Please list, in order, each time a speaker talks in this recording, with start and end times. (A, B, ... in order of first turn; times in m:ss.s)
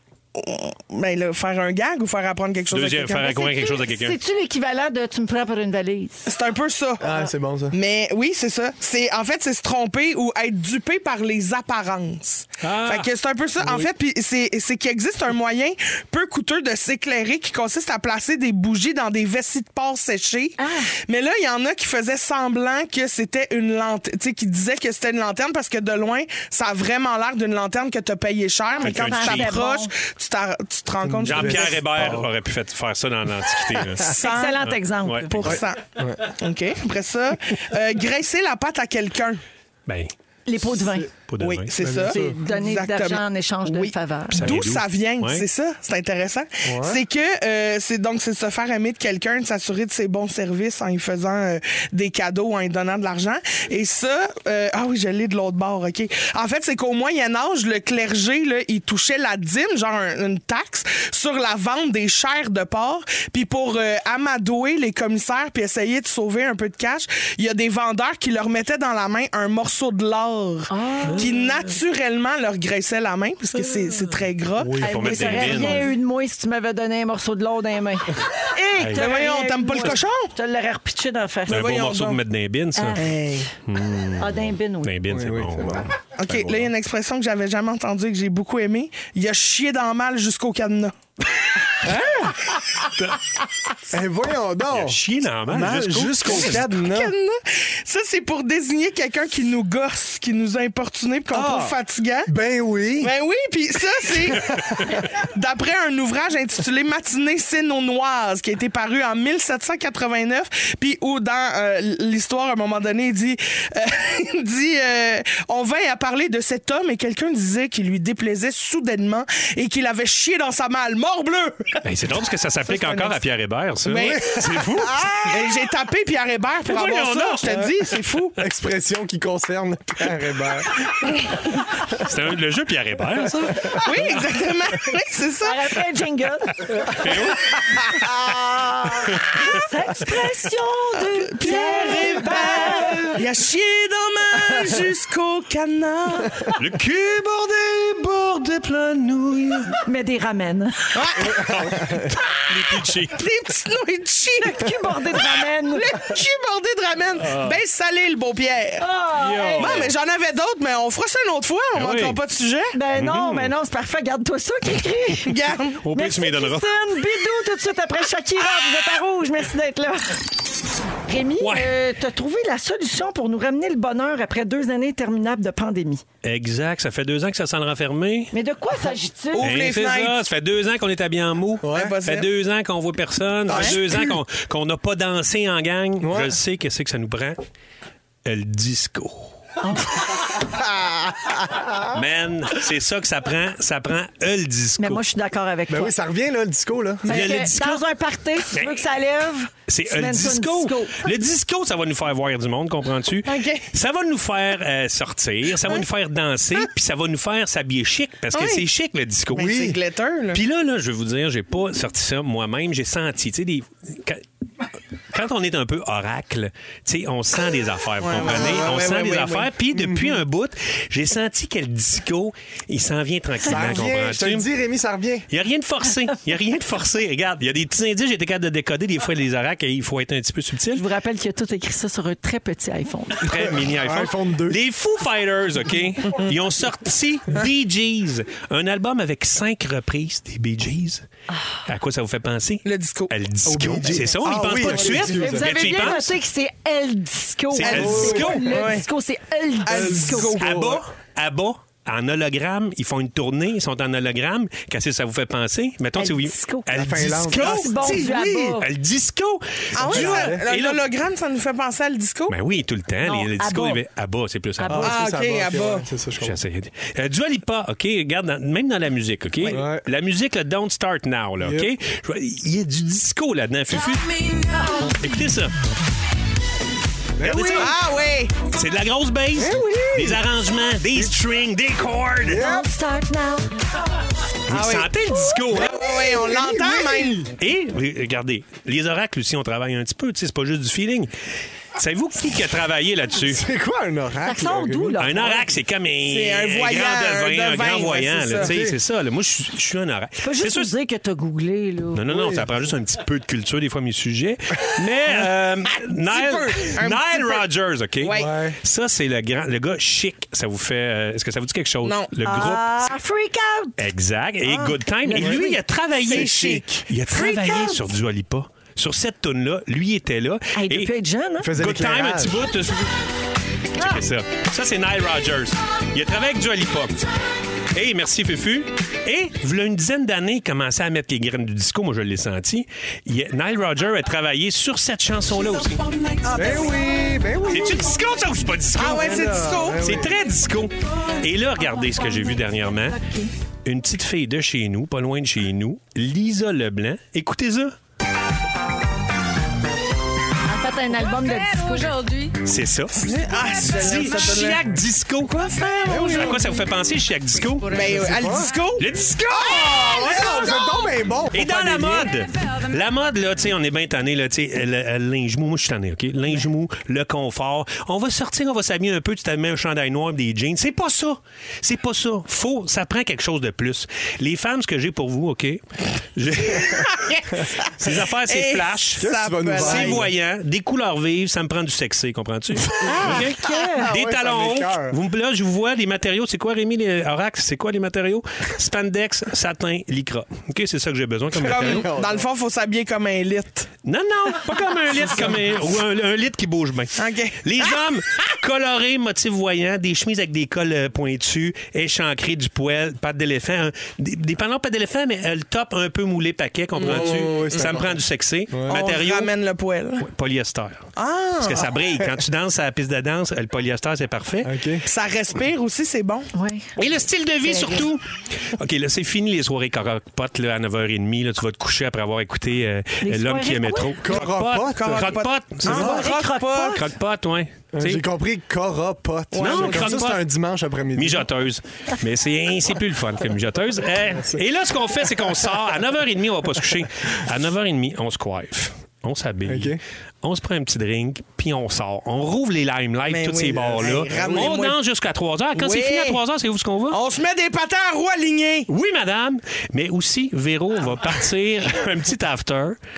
0:00.3-0:03.5 A
0:02.7-0:04.2 B
0:03.4-0:06.3 C
0:06.3-0:07.2 A
0:07.0-0:07.8 D
0:07.7-0:31.8 A
0:12.6-0:13.1 B
0:13.6-0:13.9 D
0:20.6-0:20.9 C
0:28.8-0:29.9 C
0:28.8-0:29.6 B
0:31.0-0:32.3 D
0:31.2-0:35.6 B
0:34.1-0:34.7 A
0:34.2-0:35.4 C
0:35.3-0:39.4 A
0:35.4-0:36.3 D
0:39.9-0:40.1 B
0:40.5-0:41.1 C
0:40.8-0:41.1 D
0:41.3-0:41.7 B
0:41.4-1:15.8 A
0:41.8-0:42.4 D
0:42.0-0:44.5 C
0:44.3-0:45.4 B
0:46.6-0:47.0 D
1:10.7-1:11.3 C
1:11.1-1:11.8 B
1:13.6-1:15.9 B
1:14.6-1:15.0 D
1:14.8-1:21.7 C
1:18.8-1:19.0 B
1:18.9-1:20.3 A
1:21.5-1:22.2 A
1:21.5-1:23.1 B
1:22.8-1:23.1 C
1:23.0-1:23.5 A
1:23.6-1:25.9 B
1:24.2-1:24.9 C
1:25.1-1:26.7 D
1:26.2-1:30.9 A
1:31.8-1:32.4 D
1:33.9-1:37.1 D
1:34.7-1:36.7 B
1:36.2-1:42.3 A
1:41.3-1:43.1 D
1:43.0-2:01.8 A
2:01.8-2:05.1 B
2:02.7-2:03.2 A
2:03.8-2:04.3 A
2:03.9-2:05.5 D
2:05.2-2:08.4 A
2:06.6-2:07.9 B
2:08.4-2:10.7 D
2:11.8-2:14.1 B
2:13.8-2:15.8 A
2:15.4-2:16.7 C
2:16.8-2:17.8 B
2:19.0-2:19.3 B
2:19.3-2:23.2 C
2:21.1-2:26.5 A
2:26.5-2:29.8 B
2:29.8-2:30.9 C
2:30.9-2:31.4 A
2:31.2-2:32.2 D
2:31.5-2:33.2 B
2:33.1-2:38.9 A
2:34.4-2:35.9 C
2:37.2-2:37.6 B
2:38.8-2:39.9 C
2:39.2-2:39.9 B
2:39.6-2:42.7 A
2:41.7-2:42.2 B
2:42.7-2:45.3 C
2:42.9-2:43.5 B
2:45.2-2:45.8 A
2:45.8-2:46.7 B
2:45.9-2:50.2 C
2:51.0-2:56.0 C
2:51.4-2:51.7 B
2:56.2-2:58.3 B
2:58.3-2:59.5 C
2:59.3-3:00.2 A
2:59.4-3:07.4 B
3:01.6-3:02.0 D
3:01.7-3:02.3 A
3:03.5-3:04.2 D
3:03.5-3:03.8 A
3:06.0-3:06.4 D
3:08.2-3:09.3 B
3:09.6-3:10.0 C
3:10.3-3:11.9 D
3:11.9-3:15.0 B
3:14.8-3:15.9 C
3:15.7-3:17.3 D
3:17.0-3:17.8 B
3:17.1-3:21.0 C
3:18.5-3:18.8 B
3:19.7-3:29.8 B
3:23.3-3:23.6 A
3:28.3-3:28.6 A
3:29.3-3:30.4 A
3:29.4-3:29.8 D
3:30.3-3:34.2 B
3:35.1-3:44.5 B
3:38.0-3:39.5 A
3:38.2-3:38.9 D
3:39.7-3:40.2 D
3:43.4-3:45.2 D
3:45.3-3:50.8 B
3:50.7-3:53.3 C
3:53.2-4:01.0 B
3:53.3-3:54.6 D
4:01.6-4:06.1 B
4:02.6-4:03.1 A
4:03.4-4:05.5 D
4:05.1-4:10.3 C
4:07.5-4:08.6 B
4:07.6-4:08.8 A
4:07.7-4:08.4 D
4:09.6-4:10.7 A
4:09.7-4:10.8 D
4:10.4-4:20.8 B
4:16.0-4:18.7 C
4:16.7-4:18.5 D
4:19.7-4:22.4 A
4:19.8-4:20.4 D
4:22.3-4:24.9 B
4:23.0-4:23.8 C
4:24.6-4:24.9 C
4:24.6-4:26.4 D
4:24.8-4:25.8 A
4:26.2-4:35.5 B
4:29.5-4:29.8 D
4:31.4-4:31.7 D
4:34.5-4:34.9 C
4:37.2-4:37.7 D
4:37.2-4:37.8 B
4:37.5-4:38.4 A
4:38.4-4:42.4 B
4:39.3-4:40.2 D
4:42.2-4:42.7 D
4:42.3-4:43.5 C
4:44.5-4:45.8 B
4:44.5-4:47.2 A
4:45.5-4:47.3 D
4:47.4-4:51.1 B
4:51.7-4:53.4 B
4:53.2-4:55.0 D
4:54.2-4:55.4 C
4:55.0-5:00.7 B
4:56.1-4:58.5 A
4:58.4-4:58.8 D
5:00.2-5:02.0 C
5:01.9-5:12.9 B
5:02.1-5:02.5 D
5:06.0-5:07.4 A
5:08.0-5:08.3 A
5:08.1-5:08.6 D
5:11.8-5:12.1 A
5:12.2-5:13.7 C
5:13.8-5:20.9 B
5:14.4-5:15.3 A
5:15.0-5:15.6 C
5:16.0-5:17.7 A
5:17.1-5:17.6 C
5:20.5-5:21.5 C
5:21.4-5:22.4 D
5:21.6-5:22.9 B
5:23.7-5:27.0 B
5:23.8-5:24.0 C
5:27.7-5:36.7 B
5:36.3-5:37.9 D
5:37.5-5:43.0 B
5:38.7-5:40.0 A
5:38.8-5:40.1 D
5:43.0-5:43.3 C
5:43.6-5:47.7 B
5:50.4-5:52.3 C
5:52.4-5:53.1 B
5:52.9-5:54.6 A
5:53.6-5:58.0 B
5:55.3-5:56.4 A
5:55.8-5:56.4 D
5:57.7-6:00.3 A
5:57.7-5:58.5 D
5:58.8-6:00.6 B
5:59.3-6:02.1 D
6:01.3-6:15.6 B
6:16.1-6:16.9 B
6:16.8-6:20.1 A
6:17.7-6:31.9 B
6:19.0-6:20.1 D
6:22.8-6:25.0 D
6:22.8-6:23.9 C
6:31.4-6:32.3 D
6:31.4-6:33.7 A
6:33.8-6:49.3 B
6:37.0-6:37.7 A
6:46.8-6:47.8 A
6:46.8-6:48.0 D
6:48.5-6:48.8 D
6:48.7-6:50.0 A
6:50.0-6:54.5 B
6:51.0-6:51.7 A
6:54.4-6:54.8 D
6:54.8-6:56.3 A
6:56.3-6:56.7 C
6:56.8-7:06.0 B
6:57.4-6:57.8 C
7:03.0-7:03.9 C
7:04.0-7:06.1 D
7:04.7-7:06.8 A
7:05.7-7:06.8 C
7:06.7-7:08.0 B
7:07.7-7:11.3 D
7:09.3-7:10.0 A
7:09.4-7:10.2 B
7:10.9-7:27.0 B
7:14.2-7:14.4 D
7:19.4-7:19.8 D
7:23.1-7:24.8 A
7:23.7-7:24.6 D
7:25.5-7:26.2 A
7:26.9-7:28.7 A
7:28.7-7:32.8 B